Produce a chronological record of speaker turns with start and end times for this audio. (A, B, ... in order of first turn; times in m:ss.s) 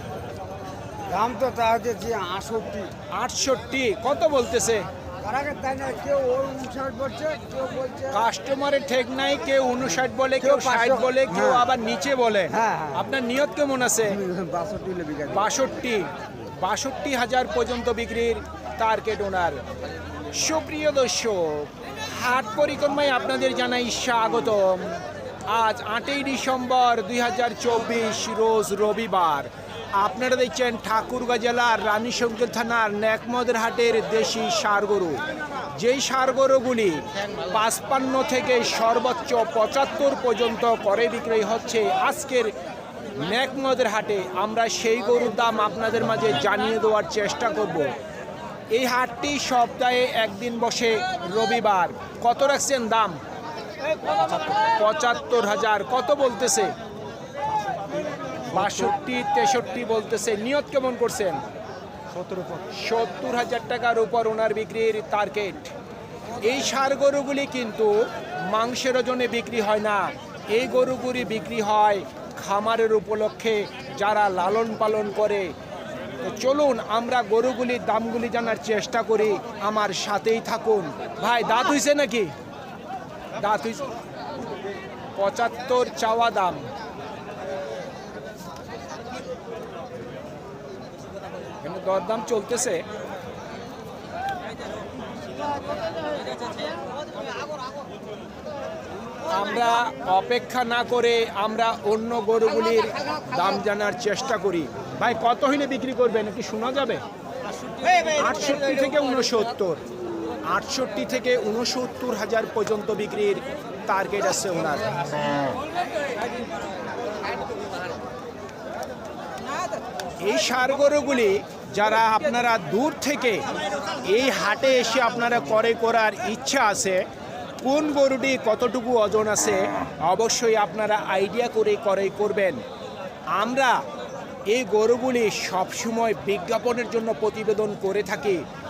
0:01.1-0:02.9 A
0:03.1-0:04.9 B
0:05.2-0:08.2 A
0:08.1-0:14.2 B
0:10.4-0:11.7 A
0:12.5-0:13.1 A
0:14.1-0:15.5 A
0:15.3-0:19.6 B
0:20.3-0:42.5 B
0:43.2-0:47.9 B
0:48.7-0:53.2 B
0:54.6-0:56.7 B
0:58.5-1:01.4 B
1:02.5-1:05.7 B
1:06.4-1:15.5 B
1:16.2-1:22.3 B
1:23.4-1:23.9 B
1:25.2-1:26.7 B
1:31.6-1:32.8 B
1:39.3-1:47.0 B
1:47.7-1:48.0 A
1:48.1-1:49.8 B
1:50.5-1:55.0 B
2:00.2-2:03.5 B
2:04.0-2:07.0 B
2:07.6-2:12.6 B
2:13.4-2:13.8 B
2:14.5-2:18.4 B